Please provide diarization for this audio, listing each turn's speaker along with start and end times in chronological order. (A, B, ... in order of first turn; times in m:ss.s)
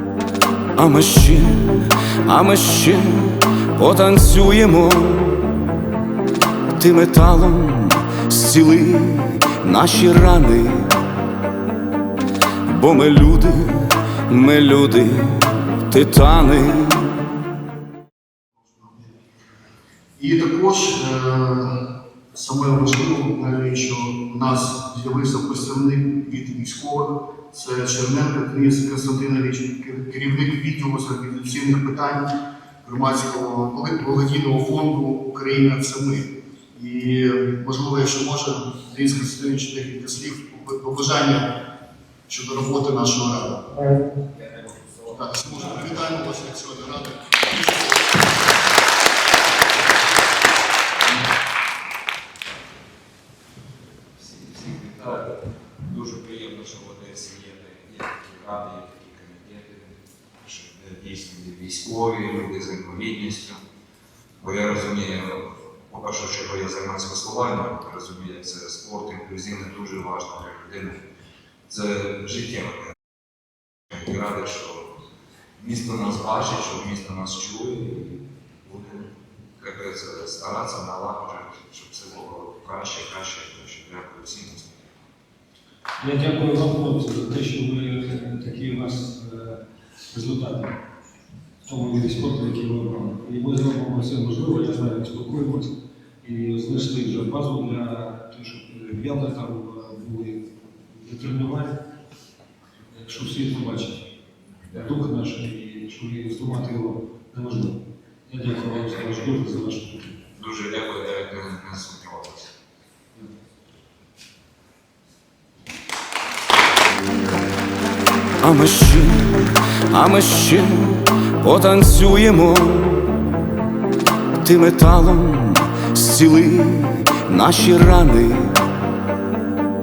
0:00.8-0:05.6 A
0:06.7-0:11.0 A
0:12.6-0:17.3 A
0:18.7-0:19.1 B
0:20.2-0:21.8 B
0:22.3-0:32.3 B
0:32.8-0:41.5 B
0:42.3-0:43.8 B
0:45.1-0:48.4 B
0:54.2-1:03.6 C
1:04.4-1:11.0 C
1:11.7-1:13.0 C
1:13.9-1:14.9 C
1:15.6-1:19.0 C
1:19.6-1:24.7 C
1:26.0-1:29.6 D
1:30.1-1:30.8 D
1:31.6-1:41.8 D
1:42.9-1:44.1 D
1:44.7-1:50.2 D
1:50.3-1:52.5 C
1:58.4-2:03.2 A
2:04.4-2:08.7 A